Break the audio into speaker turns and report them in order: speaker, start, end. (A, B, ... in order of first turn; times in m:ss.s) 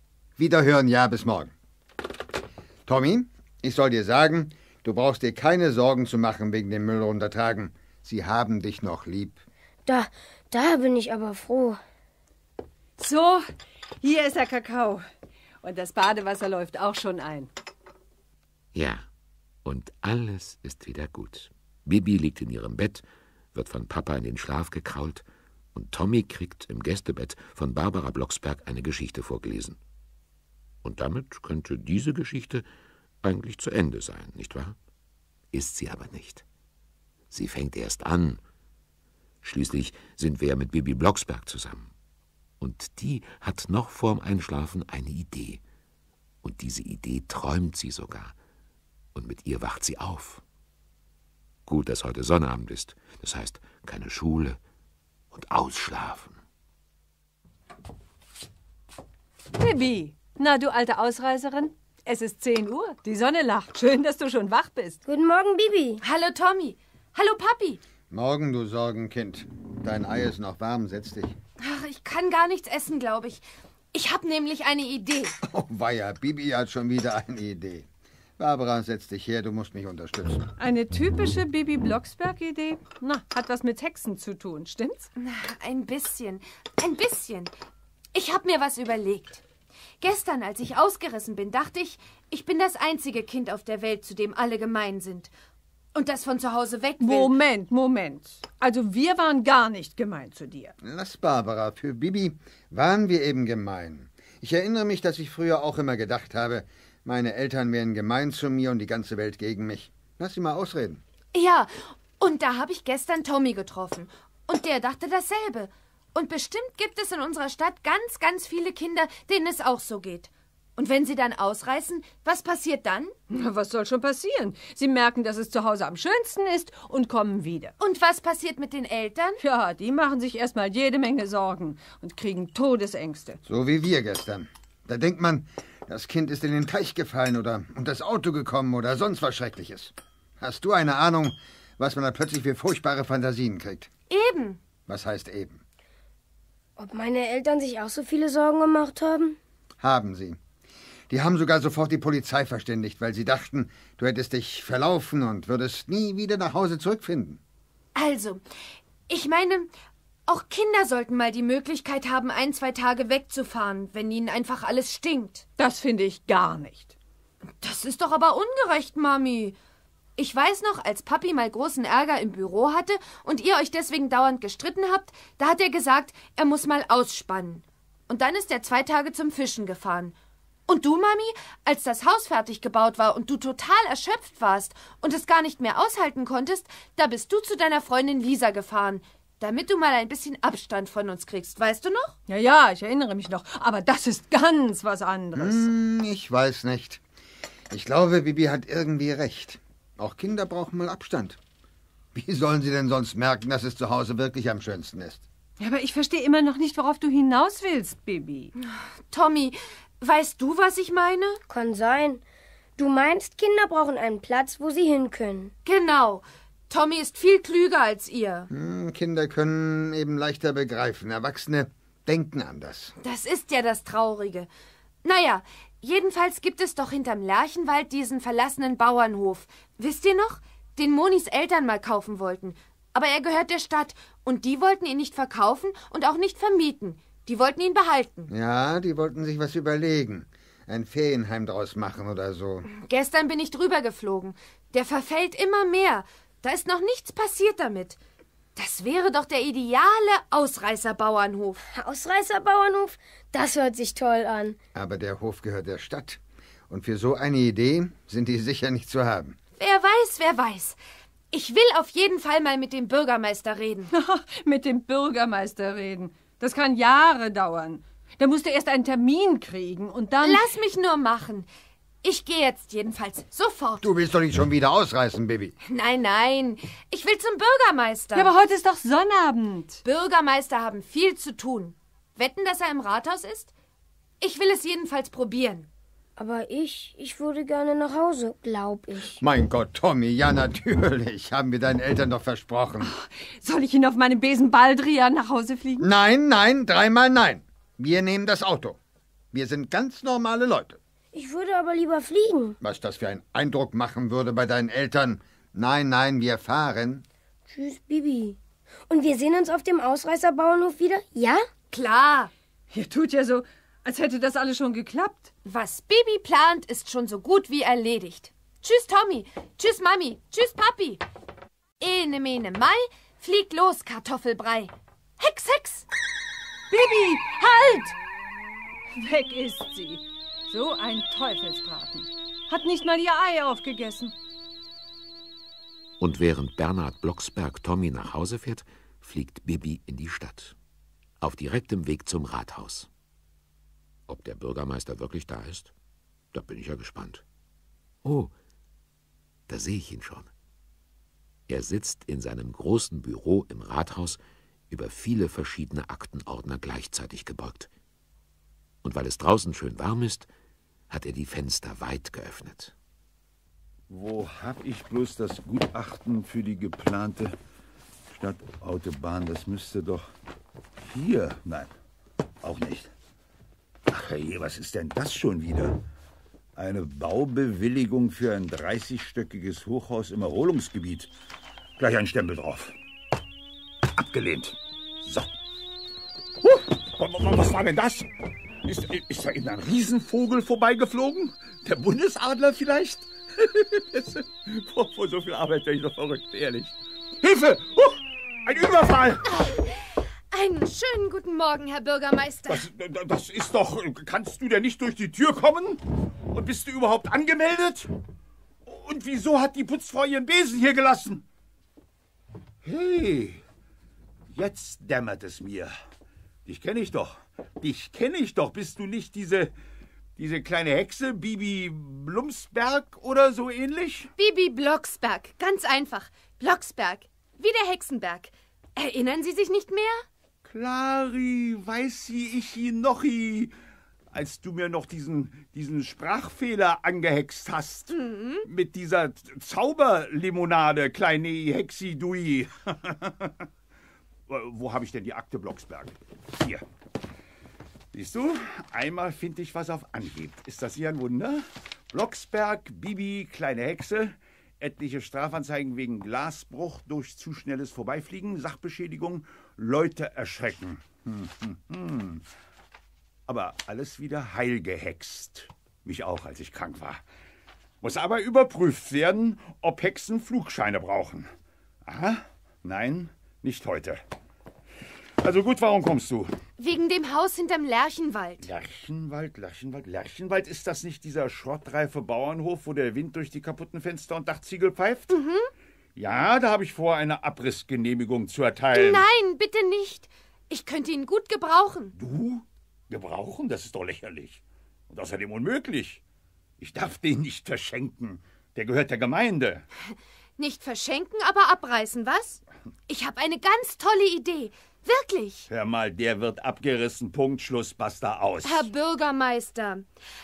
0:00.4-0:01.5 A
0:02.8-0:09.4 A
0:09.8-0:11.8 B
0:13.0-0:13.4 C
0:14.0-0:15.0 C
0:15.6-0:17.5 C
0:18.7-0:19.1 D
0:19.6-0:25.2 D
0:25.7-0:29.8 D
0:30.8-0:32.6 D
0:33.2-0:34.8 D
0:35.5-0:36.4 D
0:37.3-0:38.4 D
0:39.4-0:41.9 D
0:42.6-0:45.6 D
0:46.4-0:48.3 D
0:49.1-0:50.4 D
0:51.7-0:54.6 D
0:55.3-0:56.4 D
0:59.6-1:05.0 C
1:05.0-1:06.0 B
1:06.0-1:07.8 E
1:08.1-1:11.3 A
1:11.6-1:15.4 E
1:15.4-1:17.8 A
1:18.4-1:20.5 A
1:20.6-1:25.1 C
1:25.2-1:27.5 E
1:28.1-1:29.4 E
1:30.0-1:35.3 E
1:35.9-1:37.3 E
1:37.0-1:40.7 C
1:40.8-1:51.0 A
1:51.3-2:03.1 E
2:03.3-2:07.7 C
2:07.8-2:09.4 E
2:09.4-2:13.4 C
2:13.4-2:23.9 A
2:24.1-2:24.6 E
2:24.9-2:25.6 A
2:26.8-2:29.4 B
2:29.8-2:30.4 A
2:31.1-2:37.4 A
2:37.9-2:38.4 E
2:39.1-2:39.7 E
2:40.3-2:45.4 E
2:45.6-2:46.9 C
2:47.6-2:49.6 E
2:50.2-3:00.1 E
3:00.7-3:12.2 E
3:12.3-3:15.7 C
3:15.4-3:17.0 A
3:17.7-3:21.4 A
3:22.1-3:25.2 A
3:25.6-3:28.5 C
3:28.6-3:31.4 E
3:31.5-3:32.2 B
3:32.8-3:35.5 B
3:35.6-3:38.5 E
3:38.5-3:42.9 A
3:43.0-3:44.5 E
3:45.0-3:58.3 E
3:58.3-4:02.7 A
4:02.7-4:08.0 E
4:08.6-4:11.6 E
4:11.7-4:14.6 B
4:14.7-4:19.4 A
4:19.6-4:20.8 E
4:21.3-4:23.9 E
4:23.9-4:30.4 C
4:30.2-4:31.5 E
4:32.0-4:33.9 E
4:33.8-4:35.5 A
4:35.7-4:38.3 E
4:38.1-4:39.8 C
4:39.8-4:43.5 E
4:44.2-4:45.7 E
4:46.2-4:49.2 B
4:49.2-4:52.9 A
4:52.8-4:55.9 C
4:55.8-4:58.8 A
4:59.3-5:00.8 A
5:01.1-5:02.6 B
5:02.6-5:07.0 A
5:07.5-5:08.4 B
5:08.9-5:11.5 B
5:11.7-5:12.3 E
5:12.7-5:15.3 C
5:15.4-5:21.0 E
5:21.8-5:25.9 E
5:26.7-5:28.0 C
5:28.9-5:34.1 C
5:36.0-5:40.5 D
5:41.2-5:42.9 D
5:44.1-5:45.7 D
5:46.3-5:47.2 D
5:48.0-5:48.3 D
5:49.5-5:50.3 D
5:51.5-5:57.7 D
5:58.8-6:00.3 D
6:00.9-6:02.7 D
6:03.9-6:07.3 F
6:08.1-6:10.1 F
6:10.8-6:11.7 F
6:12.4-6:12.9 F
6:13.9-6:15.8 F
6:16.6-6:21.1 F
6:21.8-6:22.7 F
6:23.9-6:25.3 F
6:26.4-6:28.1 F
6:28.6-6:39.3 F
6:39.3-6:39.8 E
6:40.3-6:42.7 E
6:42.5-6:47.9 F
6:48.6-6:51.2 F
6:52.6-6:53.4 F
6:54.3-6:55.7 F
6:56.4-6:59.5 F
7:00.2-7:04.1 F
7:04.2-7:10.0 E
7:10.4-7:13.5 F
7:14.1-7:17.9 F
7:17.9-7:18.4 E
7:18.4-7:23.4 F
7:24.3-7:26.6 F
7:27.9-7:42.2 F
7:43.3-7:47.0 F
7:47.8-7:51.3 F
7:51.8-7:54.0 F
7:55.2-7:56.3 F
7:56.6-7:58.5 E
7:58.4-8:05.1 F
8:05.1-8:05.5 E
8:06.0-8:09.0 F
8:08.7-8:12.0 E
8:11.9-8:16.0 F
8:16.6-8:19.6 F
8:20.4-8:25.5 E
8:25.5-8:28.7 F
8:28.4-8:29.9 E